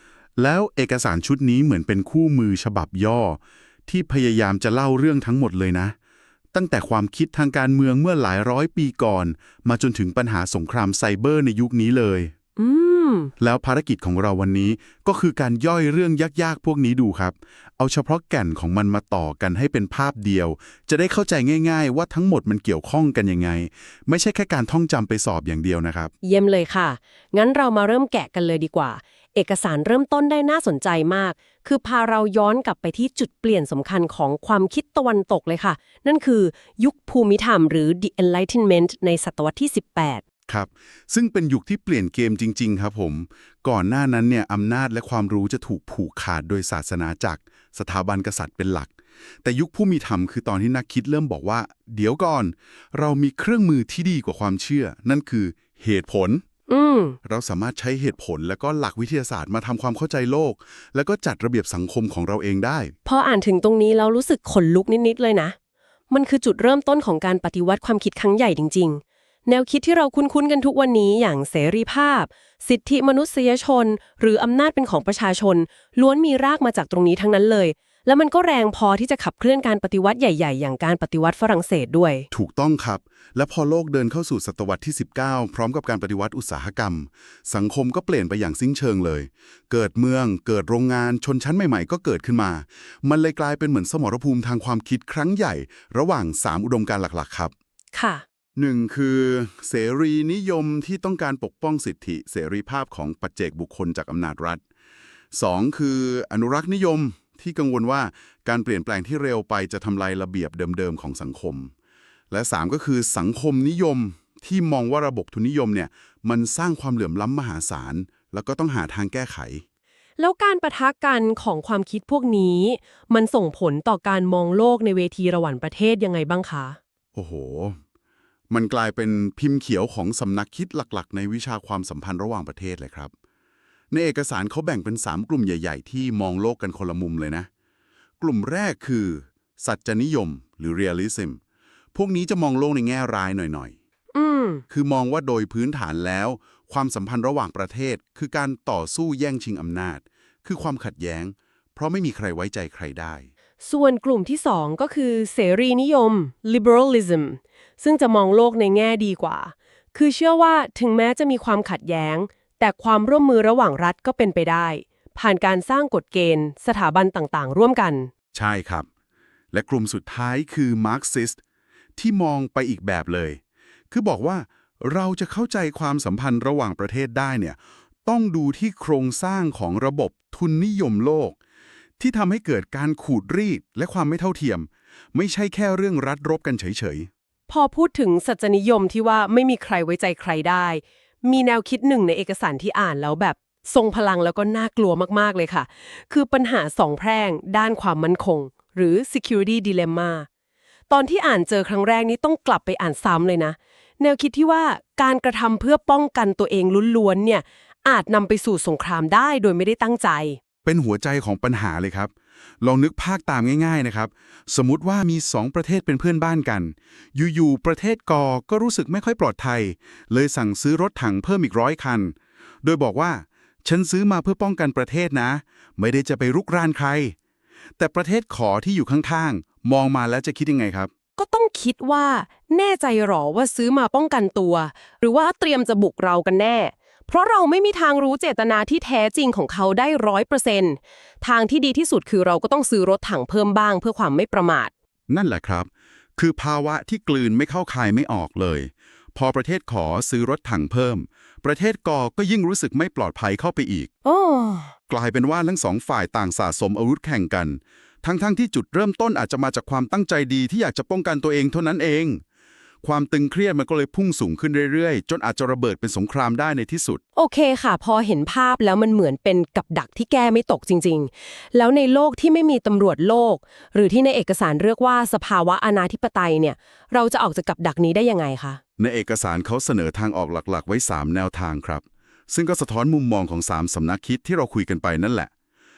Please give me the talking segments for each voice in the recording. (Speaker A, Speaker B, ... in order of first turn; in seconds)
Speaker A: 0.4-6.0, 6.5-12.3, 13.4-26.1, 40.5-56.4, 57.2-62.9, 82.3-97.5, 98.6-104.6, 105.3-111.7, 112.3-119.6, 127.1-127.8, 128.5-133.1, 133.9-137.5, 138.2-141.4, 141.9-143.8, 144.7-153.3, 168.3-168.9, 169.5-171.4, 172.0-181.4, 182.0-187.1, 210.6-227.2, 227.8-230.9, 245.1-253.9, 254.9-262.2, 262.8-267.0, 278.8-285.3
Speaker B: 12.6-13.3, 26.2-40.2, 56.7-57.2, 63.0-65.5, 66.1-82.3, 97.9-98.2, 120.2-126.8, 144.1-144.6, 153.6-168.1, 187.5-200.3, 200.9-210.4, 231.2-244.7, 254.1-254.7, 267.2-278.6